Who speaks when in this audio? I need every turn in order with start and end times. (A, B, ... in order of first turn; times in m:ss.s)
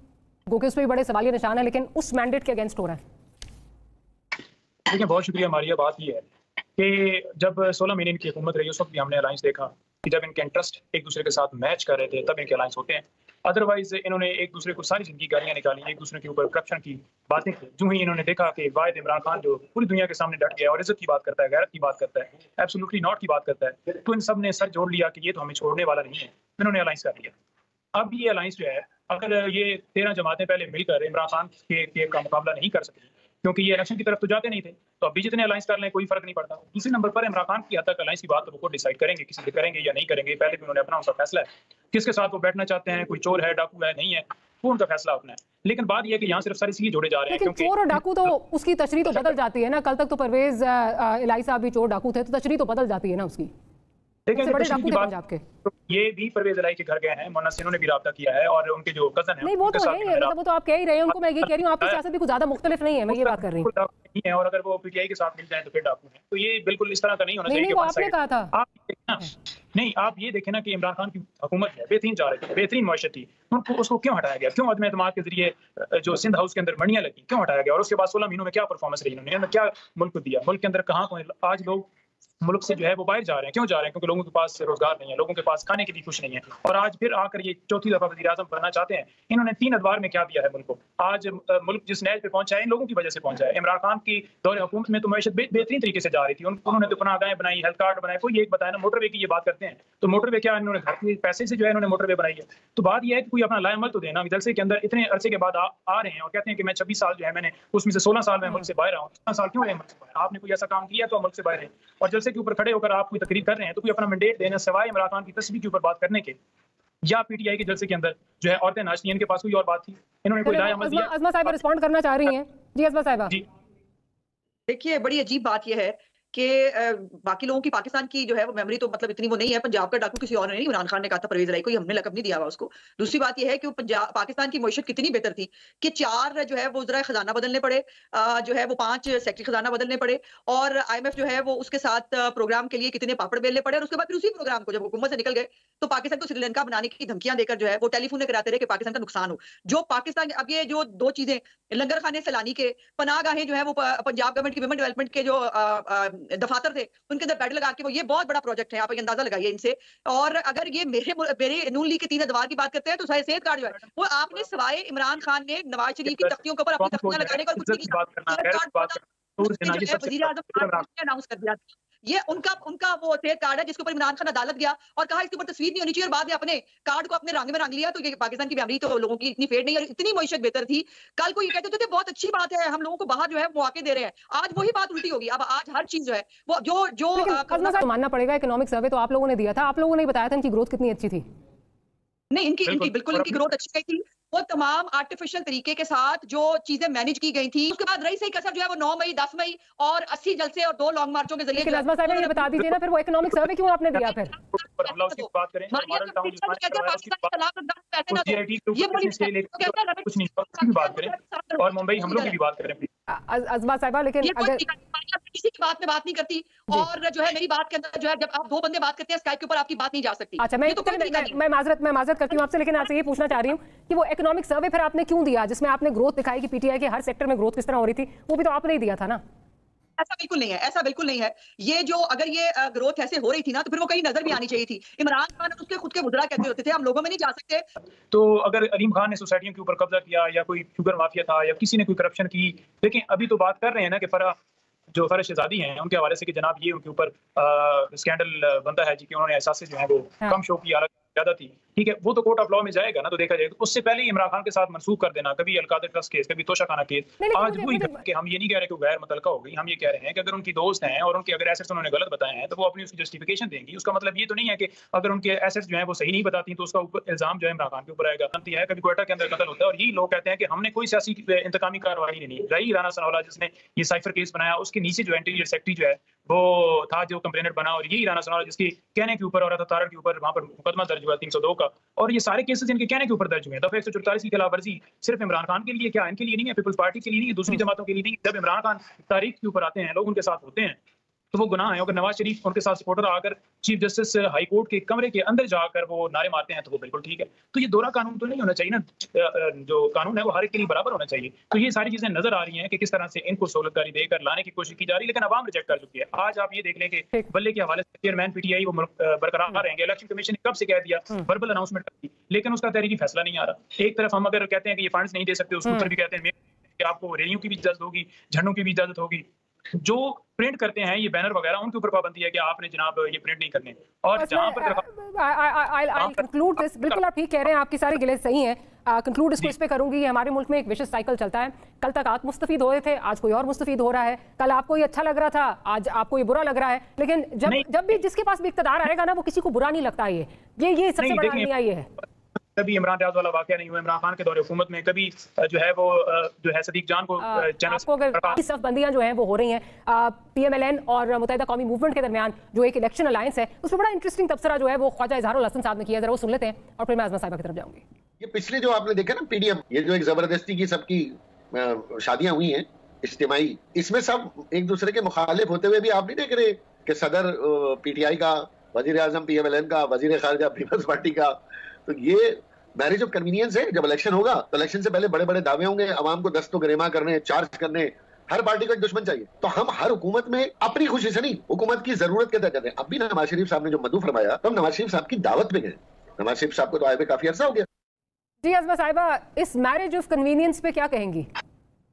0:00.5-0:03.0 A
0:04.8-0:06.2 B
0:06.8-0:27.3 B
0:27.9-0:48.3 B
0:47.3-0:53.5 A
0:54.3-0:55.1 B
0:54.4-0:55.4 A
0:55.6-1:00.3 B
0:59.4-1:03.7 A
1:03.1-1:21.9 B
1:07.5-1:08.5 A
1:22.4-1:56.4 B
1:57.0-2:01.6 B
2:00.4-2:03.4 A
2:04.7-3:07.8 C
2:46.0-2:50.8 B
3:07.2-3:11.2 A
3:12.3-3:22.4 C
3:12.7-3:13.4 B
3:21.6-3:24.4 A
3:24.3-3:32.4 C
3:24.5-3:27.3 B
3:28.1-3:32.9 B
3:33.1-3:34.6 A
3:34.2-3:41.4 C
3:40.4-3:49.2 A
3:50.0-3:57.6 C
3:58.1-4:04.3 B
4:04.9-4:50.8 B
4:17.2-4:18.0 A
4:51.3-5:24.8 B
5:24.2-5:41.9 A
5:26.0-5:27.0 B
5:41.0-5:41.5 B
5:42.4-5:48.4 B
5:47.2-5:57.8 A
5:58.2-6:27.6 D
6:28.4-6:31.3 A